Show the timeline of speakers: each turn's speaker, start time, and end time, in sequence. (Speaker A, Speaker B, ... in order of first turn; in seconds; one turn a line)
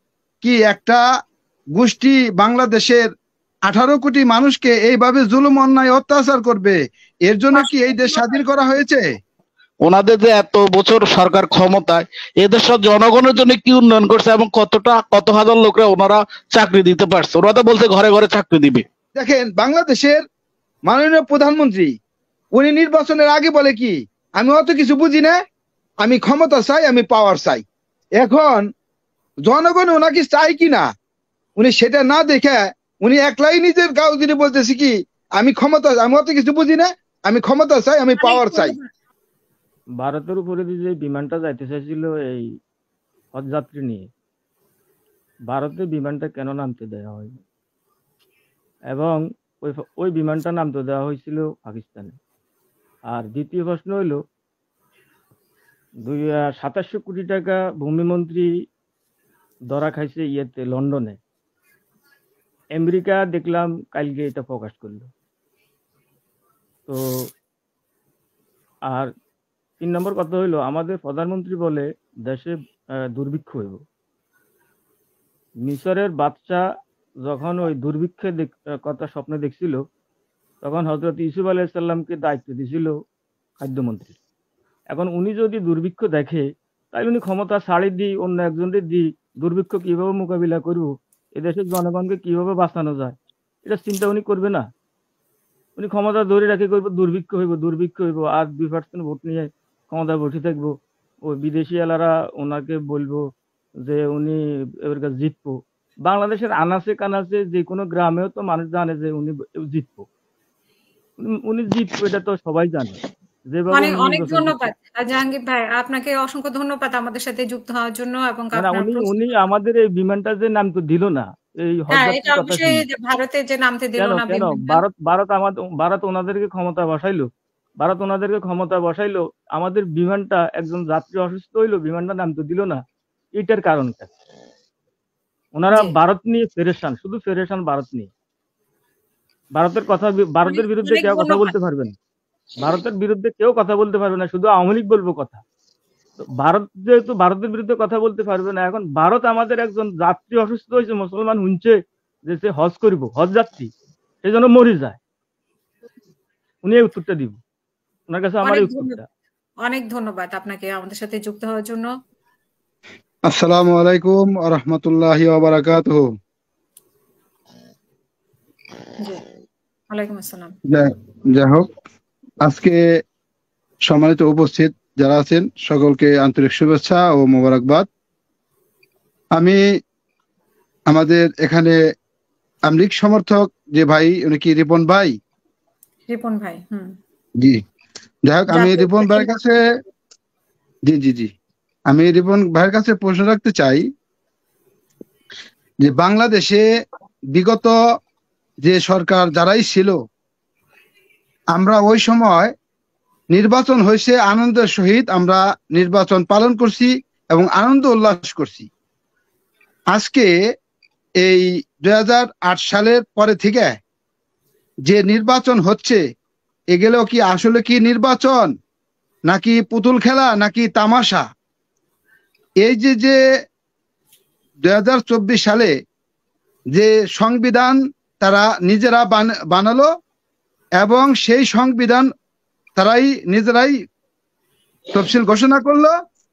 Speaker A: 0.4-1.0
Speaker A: 1.8-3.0
Speaker A: 3.7-9.1
Speaker B: 7.5-8.4
Speaker C: 9.8-18.8
Speaker A: 19.1-20.2
Speaker A: 20.9-21.9
Speaker A: 22.5-25.4
Speaker A: 26.0-27.6
Speaker A: 28.2-28.7
Speaker A: 29.5-30.9
Speaker A: 31.6-38.8
Speaker B: 38.2-38.9
Speaker D: 40.0-42.5
Speaker D: 43.3-44.1
Speaker D: 45.5-47.4
Speaker D: 48.9-52.1
Speaker D: 53.1-54.2
Speaker D: 56.0-58.5
Speaker D: 59.7-61.2
Speaker D: 62.7-65.1
Speaker D: 66.9-67.2
Speaker D: 69.8-72.5
Speaker D: 73.1-73.8
Speaker D: 75.6-76.6
Speaker D: 77.2-79.8
Speaker D: 80.6-83.0
Speaker D: 83.6-84.2
Speaker D: 84.9-94.7
Speaker D: 95.8-100.7
Speaker D: 101.3-103.2
Speaker D: 103.8-110.0
Speaker D: 111.4-113.0
Speaker D: 113.5-114.7
Speaker B: 113.7-119.4
Speaker D: 118.5-122.8
Speaker B: 121.9-124.8
Speaker D: 124.0-127.3
Speaker D: 127.8-132.8
Speaker D: 133.3-134.1
Speaker D: 135.6-138.1
Speaker D: 139.5-141.9
Speaker B: 140.4-141.5
Speaker D: 142.6-145.4
Speaker D: 146.2-153.7
Speaker D: 154.2-155.0
Speaker D: 156.6-157.4
Speaker D: 158.1-159.1
Speaker B: 158.4-159.0
Speaker B: 159.6-161.9
Speaker A: 163.3-166.1
Speaker B: 169.9-170.5
Speaker A: 170.7-171.6
Speaker A: 172.4-172.8
Speaker A: 173.9-177.9
Speaker A: 180.9-181.8
Speaker A: 182.7-185.1
Speaker B: 186.1-186.9
Speaker A: 188.3-189.6
Speaker B: 188.5-189.3
Speaker A: 190.9-191.3
Speaker A: 191.9-193.8
Speaker A: 195.8-196.6
Speaker A: 197.3-197.7
Speaker A: 198.6-200.0
Speaker A: 201.5-202.5
Speaker A: 203.3-208.7
Speaker A: 209.9-210.3
Speaker A: 211.2-213.8
Speaker A: 214.8-216.0
Speaker A: 216.7-218.5
Speaker A: 219.3-221.2
Speaker A: 222.6-223.2
Speaker A: 224.6-225.7
Speaker A: 226.7-229.9
Speaker A: 230.8-232.1
Speaker A: 232.8-233.8
Speaker A: 234.9-235.9